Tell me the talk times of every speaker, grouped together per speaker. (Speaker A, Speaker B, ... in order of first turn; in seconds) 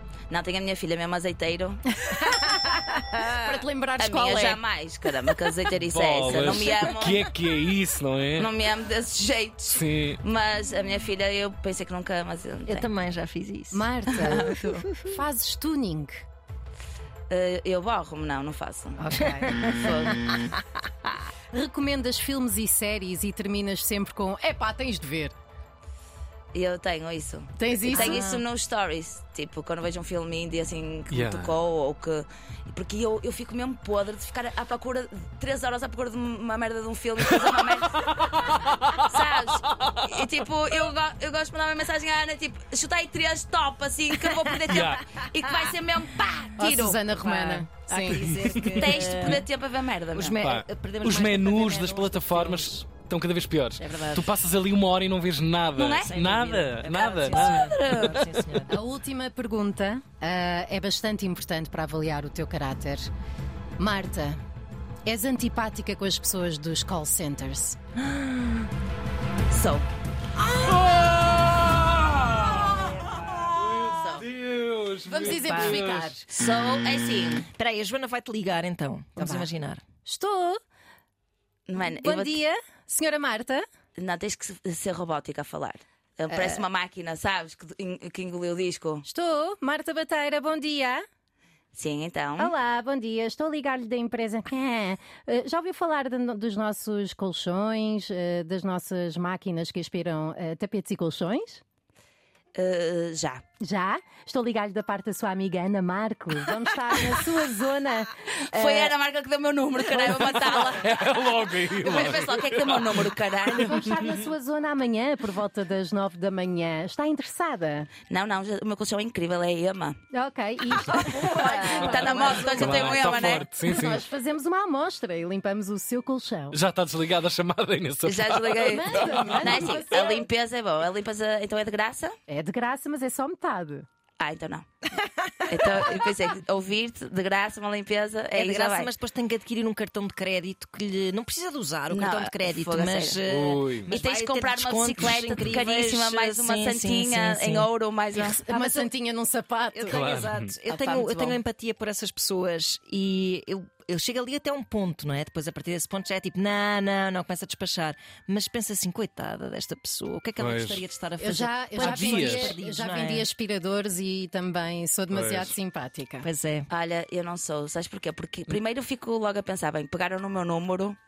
Speaker A: 0.3-1.8, 4.0-7.3, 8.4-12.9, 14.1-14.9, 17.3-19.0, 19.5-20.4, 26.5-47.7, 48.8-50.4, 55.7-56.1, 57.3-58.3, 69.5-69.9, 74.0-74.2, 75.1-77.5, 81.7-82.4, 84.0-89.0, 91.7-92.5, 102.5-103.4, 108.5-110.9, 111.8-113.8, 118.1-120.0, 121.2-123.5, 128.0-132.2, 134.2-134.7, 135.5-138.9, 141.9-143.2, 143.9-148.4, 150.7-151.4, 166.7-171.0
Speaker B: 2.0-4.6, 13.7-16.2, 19.0-19.6, 21.5-25.3, 27.6-28.2, 46.6-48.3, 58.7-63.0, 63.8-64.4, 65.0-67.8, 75.2-76.2, 79.2-79.5, 80.0-80.6, 81.8-83.6, 86.3-86.6, 89.0-91.0, 92.4-101.6, 103.6-108.9, 109.9-110.4, 113.6-117.9, 120.1-126.6, 128.6-130.2, 132.3-133.8, 148.2-150.1, 161.2-166.3
Speaker C: 5.8-8.5, 9.7-10.2, 31.1-31.6, 37.3-39.1, 44.7-45.0, 48.1-49.4, 50.4-58.2, 70.4-76.2, 110.5-114.2, 122.5-124.0, 126.5-129.6, 143.3-144.0, 149.8-150.5, 160.4-160.8, 161.8-162.6, 165.1-165.5
Speaker D: 12.7-14.3, 19.4-20.1, 27.9-28.4, 47.9-49.4, 50.1-52.8, 53.8-54.3, 55.9-58.8, 68.0-68.7, 75.4-75.8, 77.5-79.8, 120.9-122.8, 138.3-147.7, 148.4-148.9, 149.7-163.3, 166.2-166.7